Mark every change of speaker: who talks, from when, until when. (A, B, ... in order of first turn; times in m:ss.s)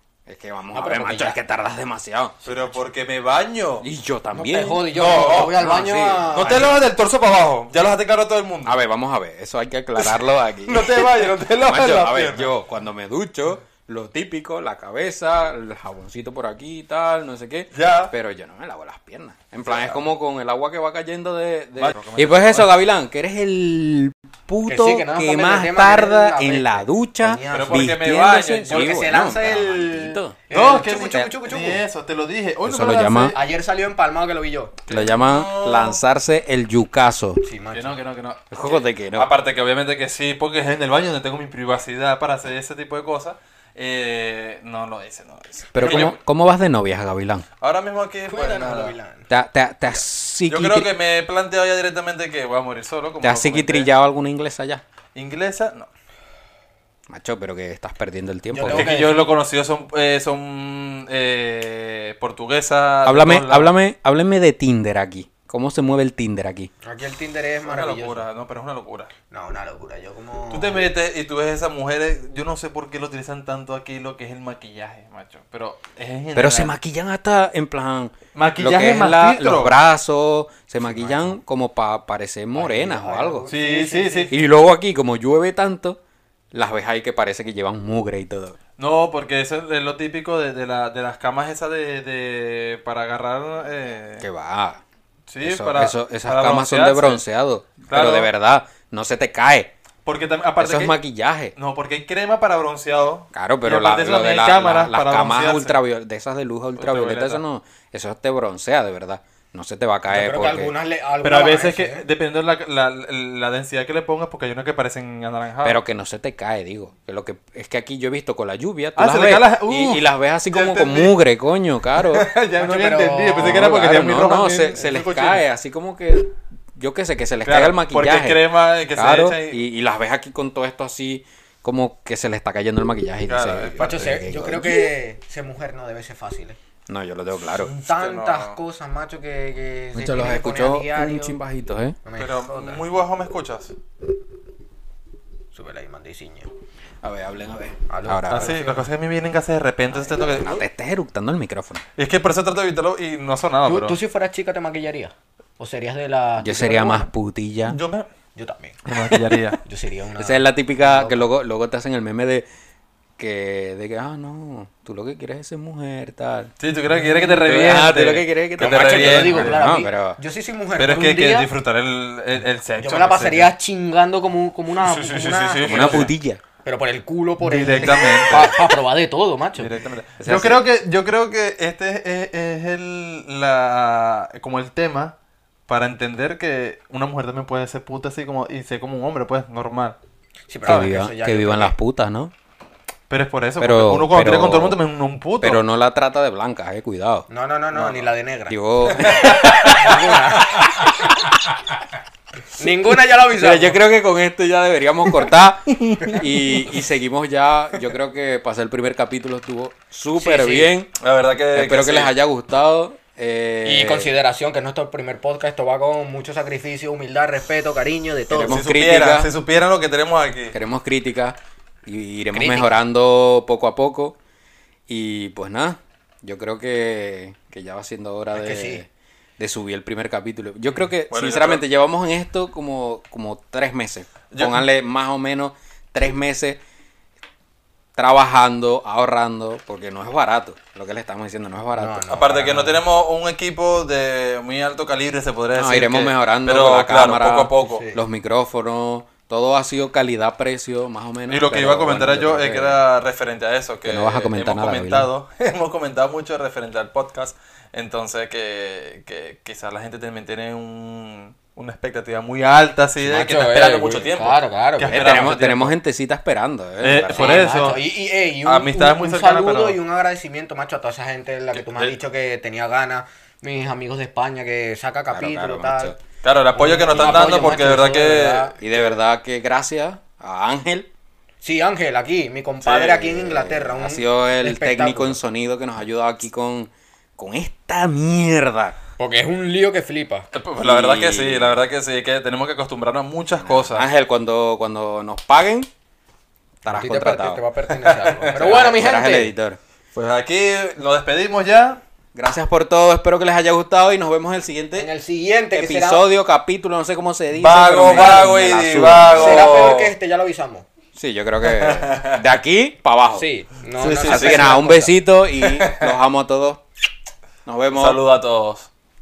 0:00.2-0:02.4 A
0:00.7-0:01.4 B
0:02.4-0:02.7 B
0:02.4-0:03.8 C
0:03.8-0:06.7 A
0:04.3-0:06.8 B
0:04.9-0:05.7 C
0:06.3-0:08.8 C
0:08.6-0:30.4 A
0:10.0-0:12.5 C
0:17.7-0:18.1 C
0:19.6-0:20.0 C
0:21.8-0:22.7 C
0:24.6-0:27.9 B
0:27.5-0:29.1 C
0:28.6-0:31.8 B
0:30.5-0:33.4 C
0:32.6-0:33.4 A
0:33.2-0:34.8 B
0:34.9-0:36.0 C
0:34.9-0:37.4 A
0:37.4-0:38.0 B
0:37.7-0:46.2 C
0:38.5-0:39.3 A
0:45.7-0:47.4 A
0:47.6-0:49.0 C
0:48.3-0:49.3 B
0:49.3-0:50.9 A
0:50.5-0:53.9 C
0:53.2-0:54.8 A
0:55.1-0:55.9 C
0:57.1-0:58.9 A
0:58.5-0:59.3 B
0:58.6-1:03.7 C
1:03.0-1:06.7 A
1:06.8-1:08.2 B
1:07.6-1:09.1 C
1:09.3-1:10.9 B
1:10.5-1:16.7 C
1:16.3-1:23.5 A
1:18.3-1:19.8 C
1:22.5-1:24.3 B
1:23.5-1:24.3 C
1:24.3-1:26.0 A
1:26.5-1:28.6 A
1:28.8-1:34.2 C
1:34.2-1:34.8 A
1:35.3-1:37.2 C
1:35.4-1:39.7 A
1:37.8-1:38.3 C
1:40.0-1:41.0 C
1:40.6-1:41.5 A
1:41.5-1:45.8 C
1:43.3-1:50.7 A
1:46.8-1:47.4 C
1:50.1-1:52.0 B
1:51.2-1:55.8 C
1:55.6-2:02.3 A
1:59.0-2:01.1 C
2:02.0-2:05.4 C
2:02.6-2:03.7 B
2:03.4-2:14.9 A
2:07.4-2:09.6 C
2:13.2-2:14.1 C
2:13.8-2:16.6 B
2:16.9-2:17.7 A
2:17.6-2:21.4 B
2:17.8-2:18.6 C
2:19.9-2:22.0 A
2:22.0-2:22.9 B
2:22.2-2:23.7 C
2:25.5-2:26.5 B
2:27.0-2:28.6 A
2:27.9-2:28.8 B
2:28.3-2:30.6 C
2:29.9-2:30.5 B
2:30.1-2:31.8 A
2:32.0-2:34.0 C
2:33.6-2:37.1 B
2:36.4-2:37.8 A
2:37.7-2:38.1 C
2:38.3-2:38.8 B
2:38.9-2:39.5 A
2:38.9-2:39.6 C
2:39.6-2:41.2 B
2:40.2-2:42.4 A
2:43.2-2:46.5 A
2:46.6-2:49.6 C
2:47.0-2:47.4 B
2:47.4-2:50.2 A
2:48.6-2:51.5 B
2:50.8-2:53.5 C
2:52.8-2:56.1 B
2:54.7-2:56.1 C
2:55.6-2:56.4 A
2:56.6-2:59.7 B
2:57.4-2:58.7 C
2:59.6-3:05.1 C
3:00.2-3:00.6 A
3:05.7-3:10.0 C
3:10.5-3:11.7 B
3:10.6-3:12.3 A
3:13.1-3:15.6 C
3:13.6-3:14.8 A
3:15.4-3:17.3 A
3:17.3-3:20.9 B
3:17.7-3:18.1 C
3:18.5-3:21.6 A
3:18.9-3:20.6 C
3:22.6-3:23.8 B
3:23.3-3:30.9 A
3:30.2-3:30.7 B
3:31.0-3:32.1 C
3:31.5-3:34.1 A
3:33.6-3:38.6 B
3:38.3-3:39.3 A
3:38.5-3:40.6 C
3:40.5-3:44.2 A
3:42.3-3:42.7 B
3:44.9-3:56.6 A
3:48.3-3:48.8 B
3:51.1-3:51.6 C
3:54.3-3:54.7 C
3:57.9-4:02.1 A
4:01.7-4:02.8 B
4:02.1-4:07.8 C
4:05.5-4:12.8 A
4:07.6-4:08.0 B
4:11.3-4:25.7 C
4:13.8-4:15.1 A
4:23.0-4:25.2 B
4:24.9-4:27.8 A
4:26.8-4:27.8 C
4:27.1-4:35.9 B
4:28.4-4:29.8 C
4:31.5-4:32.0 C
4:35.1-4:36.0 A
4:36.2-4:39.0 C
4:36.5-4:38.6 B
4:36.9-4:37.6 A
4:38.6-4:40.9 A
4:41.4-4:45.2 B
4:42.6-4:48.8 A
4:49.0-4:50.3 B
4:50.3-4:53.9 C
4:50.6-4:51.6 A
4:53.4-4:55.7 A
4:56.6-4:57.4 A
4:56.7-4:59.3 B
4:57.7-4:58.8 C
4:58.4-4:59.6 A
4:59.9-5:01.8 C
5:02.1-5:04.9 A
5:04.7-5:06.0 B
5:05.5-5:09.8 A
5:07.3-5:09.9 C
5:07.8-5:08.3 B
5:09.1-5:10.6 B
5:10.9-5:13.3 A
5:11.4-5:12.2 C
5:13.1-5:15.0 B
5:13.8-5:14.5 C
5:14.0-5:16.6 A
5:15.4-5:16.0 C
5:17.4-5:18.0 A
5:17.7-5:18.7 C